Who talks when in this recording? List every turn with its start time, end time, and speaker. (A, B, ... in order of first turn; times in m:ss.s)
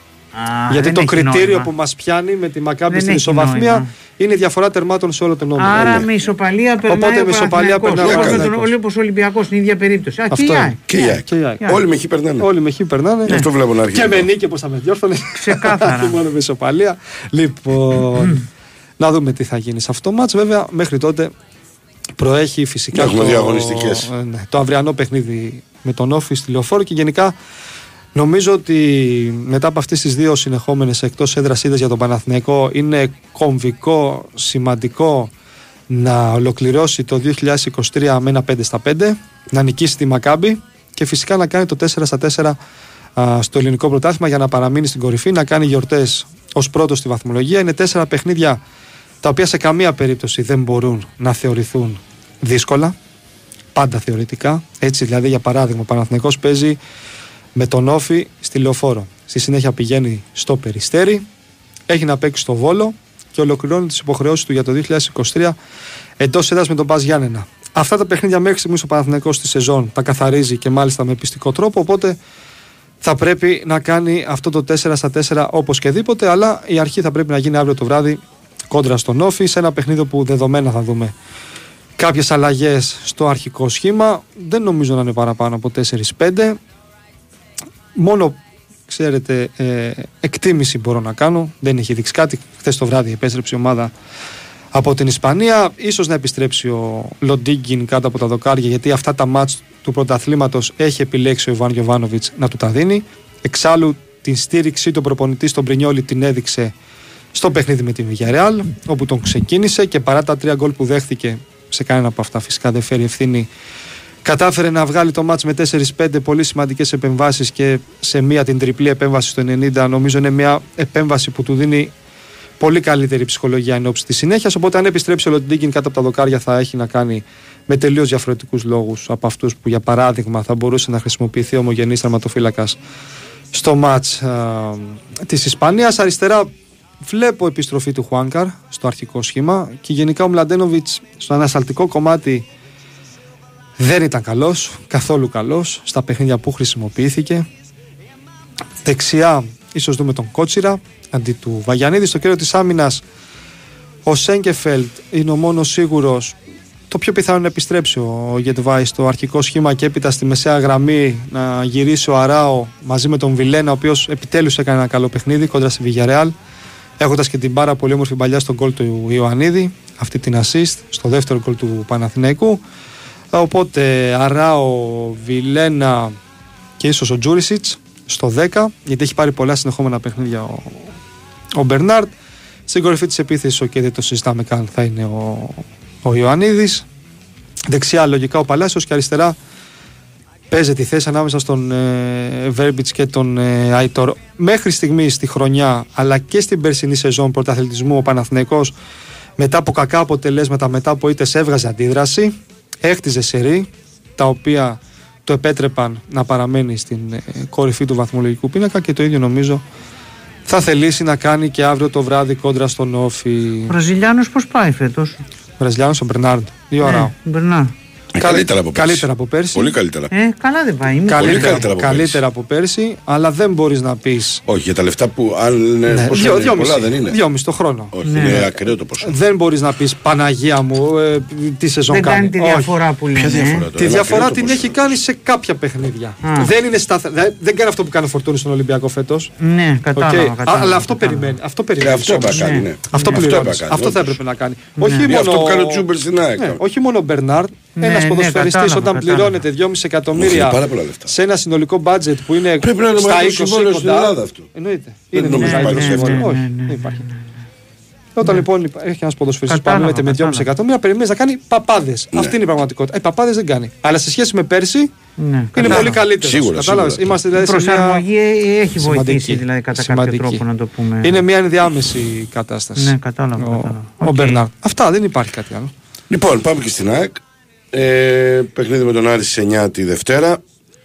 0:00.3-0:01.7 A
0:00.7-0:05.9 B
0:02.9-0:03.9 A
0:05.6-0:11.8 A
0:05.7-0:06.1 C
0:06.9-0:08.7 B
0:07.9-0:08.5 C
0:10.3-0:11.7 B
0:10.9-0:12.5 C
0:12.4-0:18.4 B
0:13.3-0:14.3 C
0:15.4-0:16.2 A
0:19.0-0:21.3 B
0:22.2-0:27.3 B
0:22.9-0:24.1 C
0:28.1-0:35.3 B
0:35.9-0:42.6 B
0:43.2-0:48.6 B
0:49.2-0:53.0 B
0:53.7-0:56.8 B
0:57.6-1:01.2 B
1:01.9-1:05.6 B
1:06.2-1:12.2 B
1:13.0-1:21.1 B
1:22.0-1:26.6 B
1:28.0-1:28.4 B
1:28.9-1:33.9 B
1:34.7-1:46.7 B
1:47.3-1:53.5 B
1:54.2-2:01.9 B
2:02.6-2:12.8 B
2:13.5-2:16.5 B
2:17.0-2:22.4 B
2:23.8-2:27.4 B
2:28.8-2:33.0 B
2:34.0-2:36.4 B
2:36.9-2:46.3 B
2:47.0-2:52.6 B
2:53.3-2:56.1 B
2:56.8-3:00.9 B
3:01.6-3:02.1 B
3:02.7-3:06.8 B
3:07.7-3:09.4 B
3:10.5-3:18.7 B
3:19.4-3:29.6 B
3:30.4-3:33.7 B
3:33.7-3:35.2 A
3:35.6-3:37.1 B
3:36.8-3:37.7 A
3:38.1-3:40.1 C
3:38.2-3:39.7 B
3:40.1-3:41.6 A
3:41.1-3:44.4 B
3:41.1-3:42.2 C
3:44.5-3:47.2 C
3:45.9-3:48.4 B
3:47.9-3:49.1 C
3:48.0-3:48.5 A
3:49.0-3:52.7 B
3:51.9-3:53.7 A
3:53.1-3:55.0 C
3:53.7-3:59.3 B
3:56.2-3:56.5 A
3:59.4-4:01.4 A
4:00.0-4:05.8 B
4:01.8-4:04.2 C
4:02.3-4:03.2 A
4:04.8-4:05.1 A
4:05.0-4:06.6 C
4:06.4-4:17.0 B
4:07.8-4:09.4 A
4:10.1-4:11.1 C
4:12.6-4:14.5 C
4:15.1-4:16.3 C
4:15.3-4:17.2 A
4:18.2-4:24.9 B
4:19.5-4:20.4 A
4:25.2-4:26.0 A
4:25.5-4:28.0 B
4:25.6-4:27.2 C
4:27.4-4:31.2 A
4:28.8-4:30.4 B
4:31.0-4:35.7 B
4:32.8-4:34.4 A
4:36.1-4:37.2 C
4:37.7-4:40.4 C